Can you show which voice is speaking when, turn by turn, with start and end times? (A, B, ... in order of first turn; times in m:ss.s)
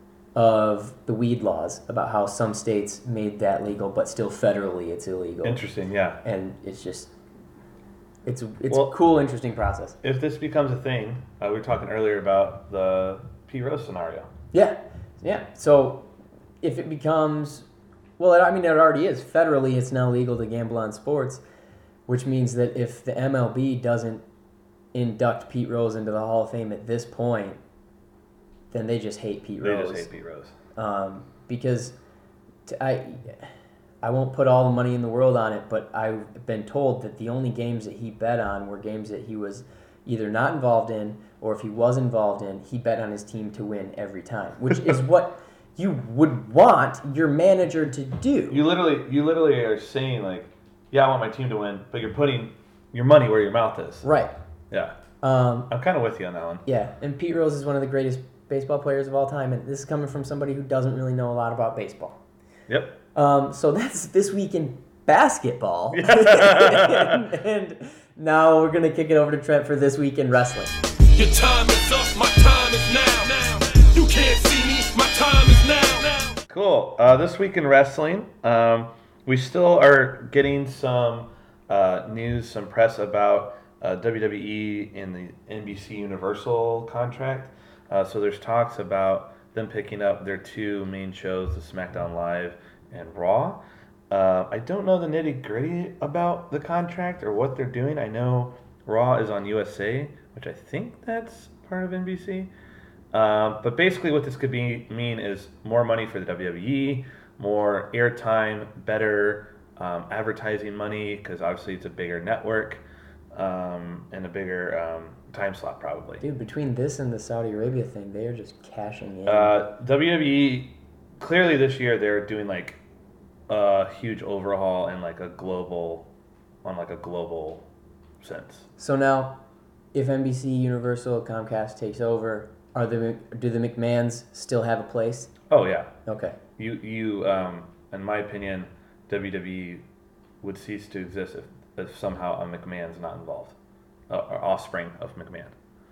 0:00.4-0:05.6 A
0:05.4-0:06.2 B
0:06.2-0:07.1 A
0:08.3-0:10.0 A
0:10.0-0:14.3 B
0:14.5-0:16.1 A
0:16.6-0:17.7 A
0:18.2-0:21.4 A
0:22.1-0:24.2 A
0:24.9-0:27.6 A
0:28.7-0:30.1 A
0:29.6-0:30.6 B
0:30.8-0:32.0 A
0:32.7-0:33.5 A
0:34.0-0:48.6 A
0:48.5-0:54.1 B
0:54.0-0:54.3 A
0:54.7-0:55.0 B
0:55.2-0:55.7 A
0:55.7-0:56.6 B
0:56.7-1:02.2 A
1:02.7-1:02.9 B
1:03.2-1:10.7 A
1:05.9-1:07.3 B
1:11.1-1:16.4 C
1:16.5-1:42.5 B
1:43.1-1:52.8 B
1:53.3-1:56.2 B
1:56.2-1:59.5 A
1:59.3-2:02.8 B
2:03.5-2:06.1 B
2:06.6-2:07.6 B
2:08.2-2:08.7 B
2:08.8-2:09.4 A
2:09.9-2:15.3 A
2:15.5-2:15.9 B
2:16.1-2:16.4 A
2:16.6-2:19.8 B
2:20.4-2:23.6 B
2:24.1-2:25.5 B